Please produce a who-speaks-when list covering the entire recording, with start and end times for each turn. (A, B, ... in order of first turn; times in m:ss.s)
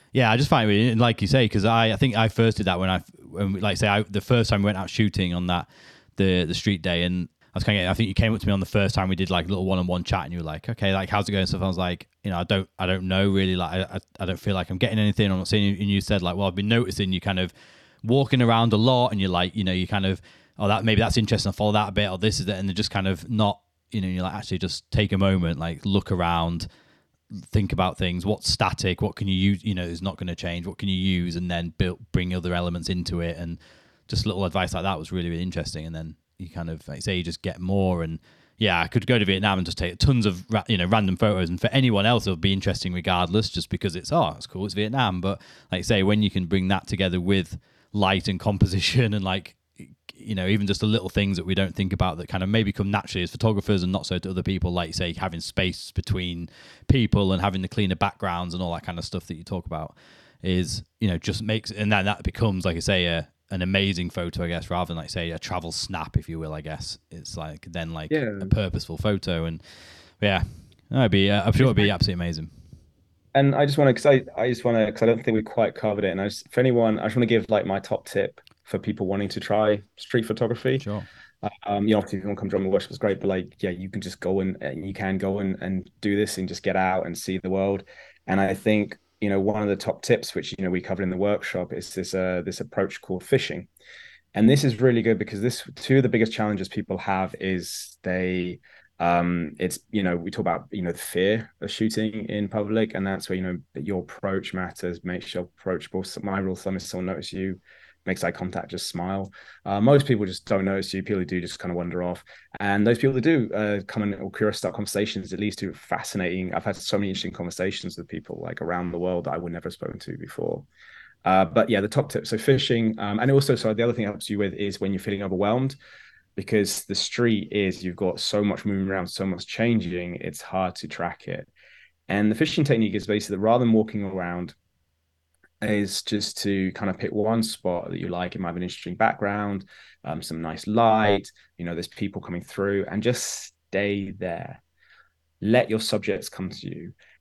0:00.1-0:26.7 A
0:27.3-1:09.6 A
1:08.1-1:08.5 B
1:10.2-1:12.5 A
1:11.6-1:11.9 B
1:13.3-1:20.8 B
1:20.8-1:21.1 A
1:21.4-1:33.7 B
1:34.4-2:00.7 B
2:01.2-2:05.8 B
2:06.4-2:11.5 B
2:12.1-2:14.6 B
2:15.6-2:24.6 B
2:25.4-2:27.0 B